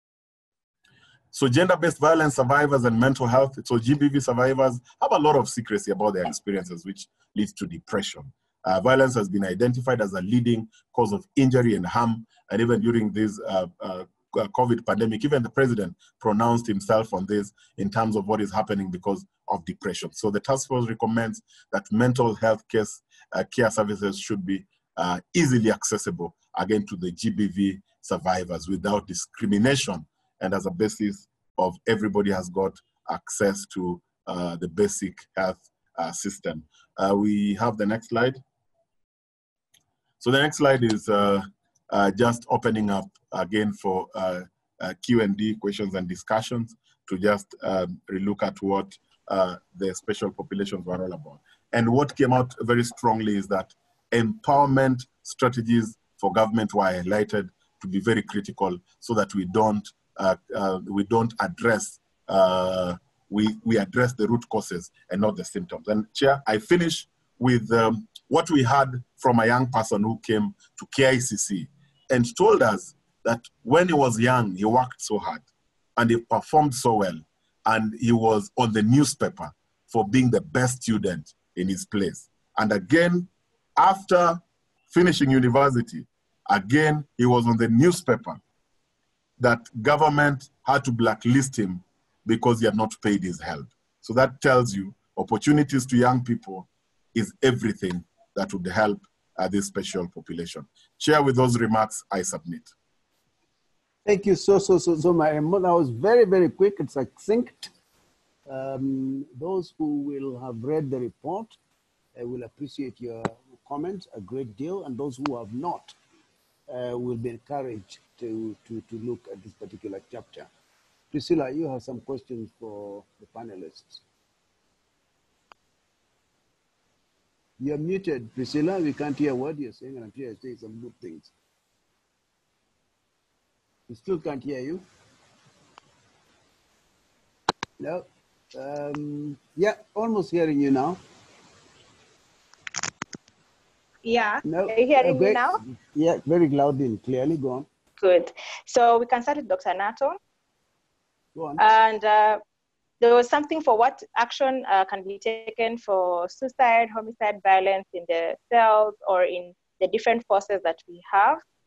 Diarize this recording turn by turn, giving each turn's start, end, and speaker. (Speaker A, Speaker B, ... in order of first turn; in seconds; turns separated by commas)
Speaker A: 1.3-38.4, Speaker A: 40.2-75.4, Speaker A: 76.0-88.4, Speaker A: 89.4-102.7, Speaker B: 104.0-107.7, Speaker B: 108.5-111.5, Speaker B: 112.1-115.9, Speaker B: 116.7-120.5, Speaker B: 121.1-124.0, Speaker B: 127.6-131.3, Speaker B: 133.9-134.8, Speaker B: 137.8-141.0, Speaker C: 144.0-145.6, Speaker B: 144.4-147.7, Speaker C: 148.0-150.2, Speaker B: 151.3-151.7, Speaker C: 151.6-152.4, Speaker C: 153.0-161.4